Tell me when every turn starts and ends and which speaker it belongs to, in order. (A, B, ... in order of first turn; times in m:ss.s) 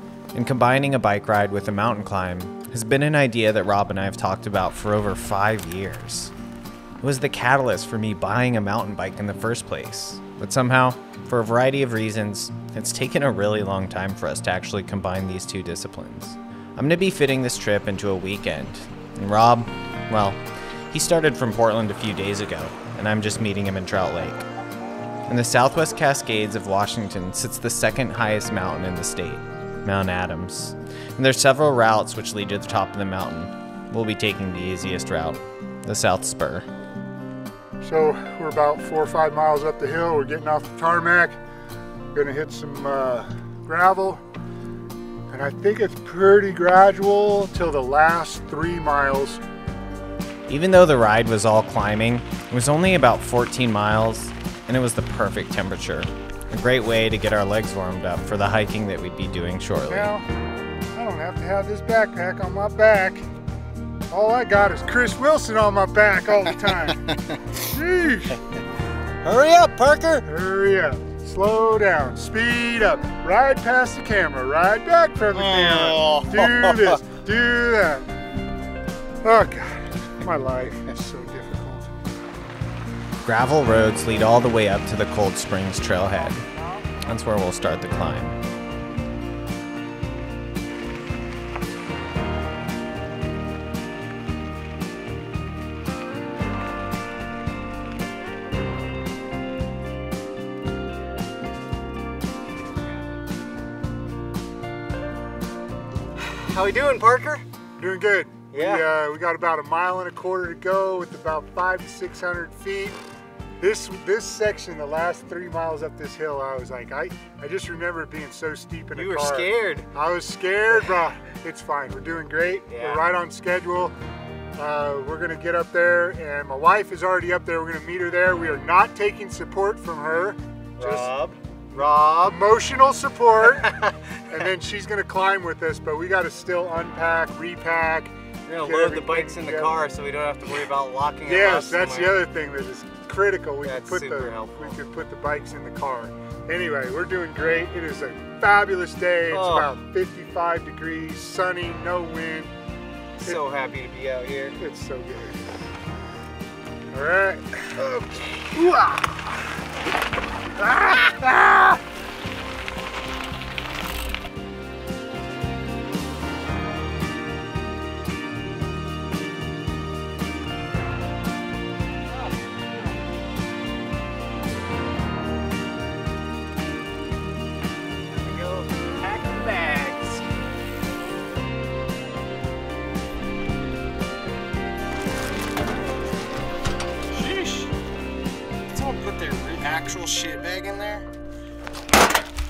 0:00.3-0:06.3 A
0:07.0-0:20.4 A
0:20.9-0:24.4 A
0:25.3-0:36.7 A
0:37.8-0:41.4 B
0:42.1-0:44.2 B
0:45.3-0:49.4 B
0:50.5-1:00.1 A
0:59.9-1:00.3 B
1:00.9-1:03.2 B
1:04.1-1:08.4 B
1:09.2-1:10.2 C
1:10.2-1:18.1 B
1:15.3-1:17.0 C
1:19.2-1:21.9 B
1:23.2-1:26.4 A
1:27.0-1:28.4 A
1:46.2-1:47.4 C
1:47.8-1:53.0 B
1:48.5-1:48.9 C
1:53.6-2:03.9 B
1:58.9-1:59.9 C
2:02.7-2:03.0 C
2:04.6-2:11.1 B
2:10.8-2:12.4 C
2:11.7-2:13.7 B
2:13.6-2:14.1 C
2:14.3-2:19.8 B
2:18.5-2:22.2 C
2:21.2-2:32.5 B
2:23.6-2:24.8 C
2:29.3-2:29.8 C
2:33.2-2:34.6 C
2:34.6-2:35.5 B
2:36.9-2:37.8 B
2:37.7-2:38.7 C
2:38.5-2:39.2 B
2:40.7-2:41.8 B
2:58.1-3:00.3 C
3:07.1-3:07.7 C
3:08.7-3:11.1 C